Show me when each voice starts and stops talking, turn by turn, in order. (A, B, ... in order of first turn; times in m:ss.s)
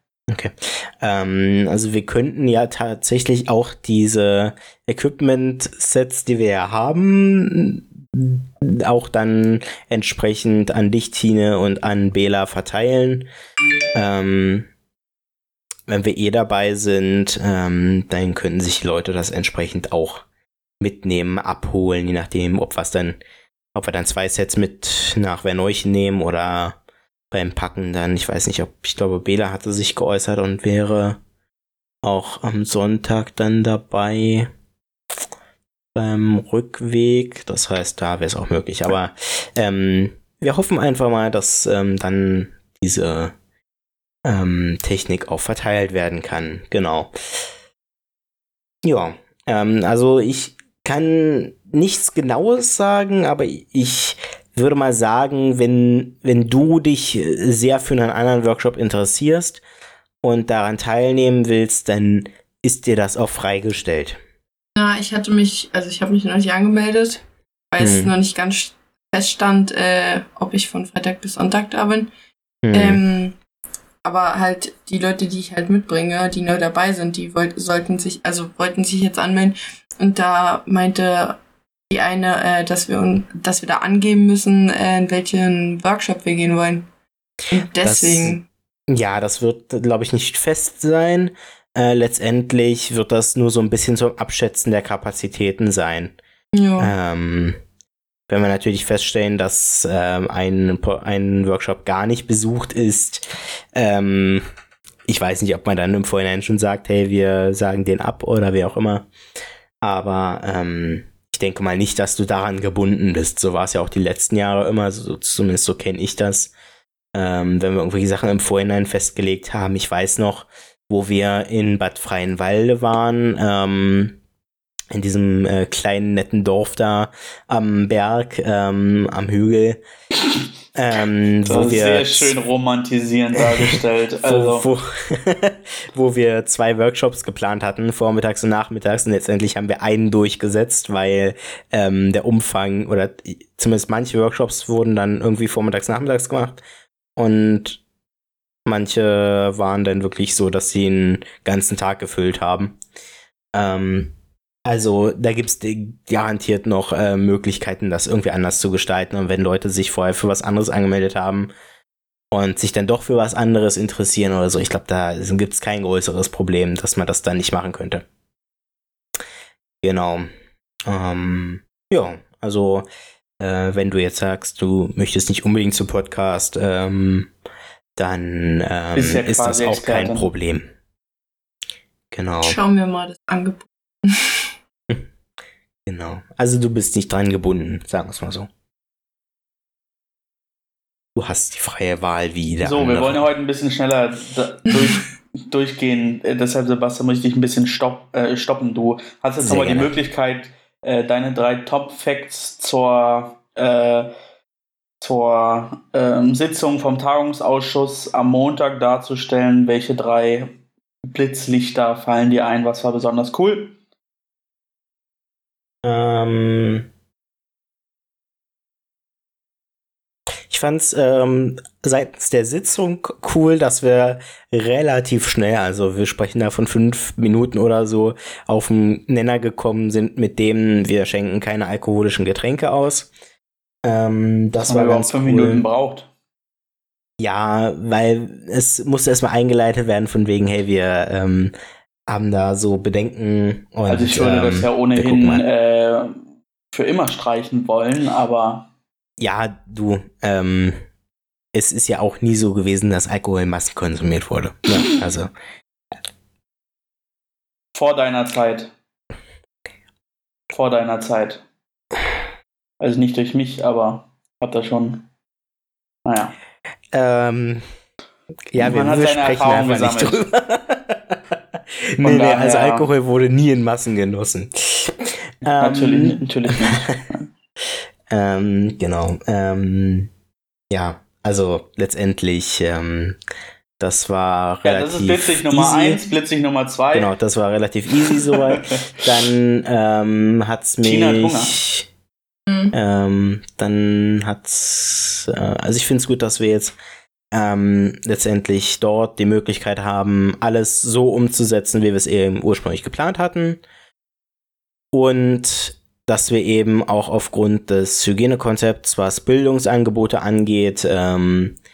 0:00.3-0:13.3 A
0:13.9-0:14.7 A
0:15.9-0:20.2 A
0:20.8-0:23.2 A
0:23.7-0:26.8 A
0:27.3-0:31.2 A
0:32.0-0:34.5 A
0:35.9-0:43.3 A
0:44.2-0:47.1 A
0:48.8-0:59.6 A
1:00.2-1:04.2 A
1:04.8-1:12.1 B
1:07.8-1:08.1 A
1:12.6-1:13.0 A
1:12.7-1:13.3 B
1:14.0-1:21.4 B
1:21.9-1:26.9 B
1:27.5-1:28.4 B
1:27.8-1:28.4 A
1:28.9-1:36.2 A
1:36.5-1:36.9 B
1:36.8-1:37.6 A
1:38.3-1:44.4 A
1:45.1-1:49.1 A
1:49.8-1:56.5 A
1:57.1-2:04.2 A
2:04.9-2:09.8 A
2:10.7-2:12.4 A
2:11.4-2:14.6 C
2:13.4-2:26.6 A
2:27.2-2:27.8 A
2:28.6-2:32.8 A
2:33.5-2:34.1 A
2:34.6-2:41.5 A
2:42.3-2:48.0 A
2:49.8-2:50.3 A
2:50.8-2:52.9 A
2:53.4-2:57.3 A
2:58.0-3:00.7 A
2:59.0-3:00.3 C
3:02.1-3:02.6 A
3:02.4-3:04.5 B
3:05.8-3:08.5 A
3:11.2-3:13.2 A
3:12.6-3:24.1 C
3:19.4-3:19.9 A
3:25.0-3:30.5 C
3:31.1-3:33.8 C
3:35.8-3:36.9 A
3:40.5-3:53.1 A
3:53.8-3:55.6 A
3:54.6-3:56.1 C
3:57.2-4:01.5 A
4:02.1-4:05.4 A
4:03.9-4:06.2 C
4:06.7-4:08.7 C
4:09.2-4:10.8 A
4:11.5-4:15.3 A
4:17.7-4:18.7 C
4:20.5-4:21.4 C
4:22.8-4:25.1 C
4:26.0-4:26.3 C
4:26.9-4:27.6 A
4:28.5-4:37.0 A
4:28.6-4:30.3 C
4:32.0-4:32.9 C
4:35.6-4:37.3 C
4:38.1-4:40.1 A
4:40.7-4:43.2 A
4:43.8-4:46.0 A
4:44.6-4:47.1 C
4:46.9-4:51.9 A
4:48.0-4:49.0 C
4:50.8-4:51.6 C
4:52.5-4:52.7 B
4:52.7-4:56.8 A
4:57.3-5:03.6 A
5:04.9-5:11.6 A